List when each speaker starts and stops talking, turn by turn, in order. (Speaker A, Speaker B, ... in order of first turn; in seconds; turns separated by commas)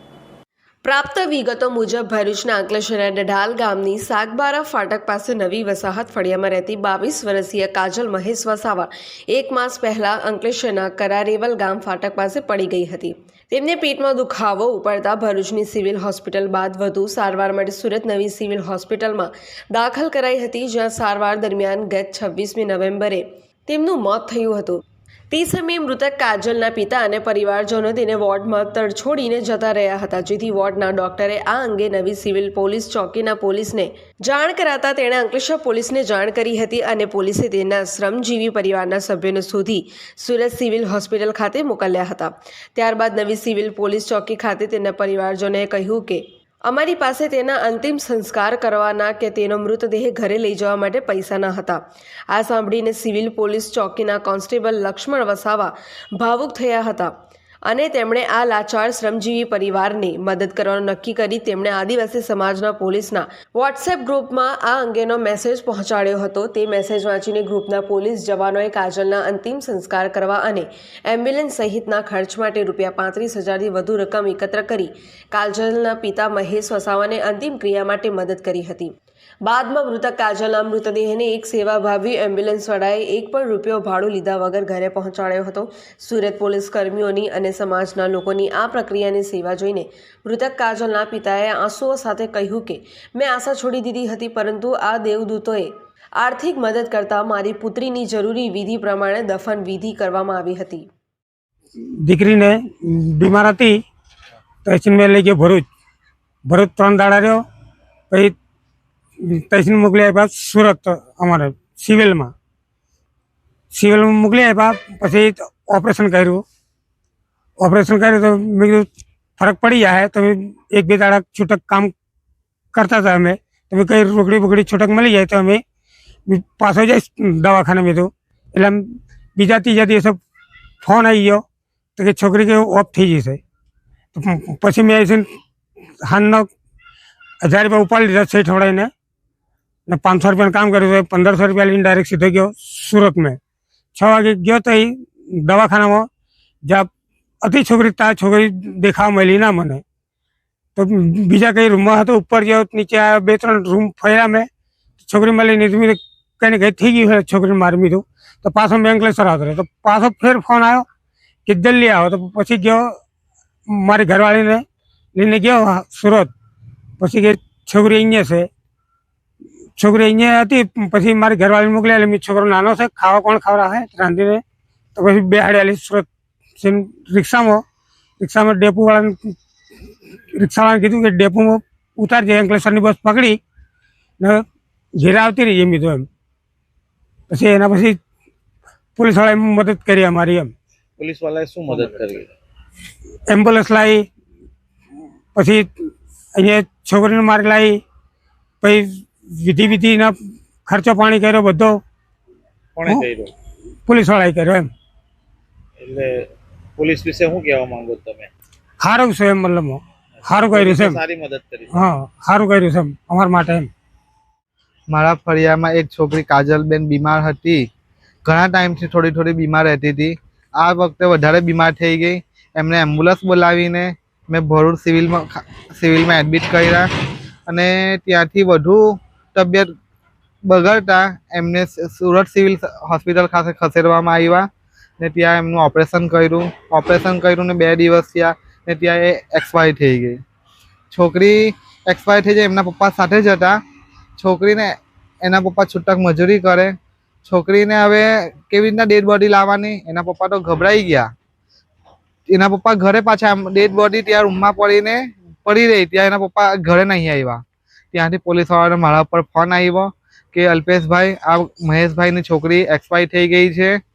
Speaker A: 0.8-57.1, Speaker A: 57.7-78.9, Speaker A: 79.4-100.9, Speaker B: 102.0-103.8, Speaker B: 104.7-105.7, Speaker B: 106.5-107.4, Speaker B: 108.1-108.3, Speaker B: 109.2-112.3, Speaker B: 113.7-116.4, Speaker B: 117.6-121.9, Speaker B: 122.7-125.6, Speaker B: 126.3-130.2, Speaker B: 130.8-131.4, Speaker B: 132.0-133.4, Speaker B: 134.1-135.3, Speaker B: 136.0-136.5, Speaker B: 137.4-138.9, Speaker B: 139.9-143.4, Speaker B: 143.9-146.1, Speaker B: 146.6-146.9, Speaker B: 147.4-149.8, Speaker B: 150.8-154.5, Speaker B: 155.0-160.9, Speaker B: 161.5-162.9, Speaker B: 163.7-166.3, Speaker B: 167.0-168.5, Speaker B: 169.8-174.4, Speaker B: 175.0-176.1, Speaker B: 176.6-177.6, Speaker B: 178.2-179.3, Speaker B: 180.4-183.4, Speaker B: 185.0-186.1, Speaker B: 187.3-188.0, Speaker B: 189.0-190.5, Speaker C: 191.0-192.3, Speaker B: 193.3-194.1, Speaker B: 195.3-195.7, Speaker B: 196.3-197.8, Speaker B: 198.6-200.1, Speaker B: 200.7-201.8, Speaker C: 202.8-203.3, Speaker B: 203.9-204.7, Speaker C: 205.8-208.3, Speaker B: 208.8-211.0, Speaker C: 210.2-211.8, Speaker B: 211.7-213.7, Speaker D: 214.9-217.7, Speaker D: 218.2-226.9, Speaker D: 227.5-229.7, Speaker D: 230.4-234.5, Speaker D: 235.0-240.2, Speaker D: 240.9-243.6, Speaker D: 244.2-251.1, Speaker D: 252.3-257.4, Speaker D: 257.9-263.8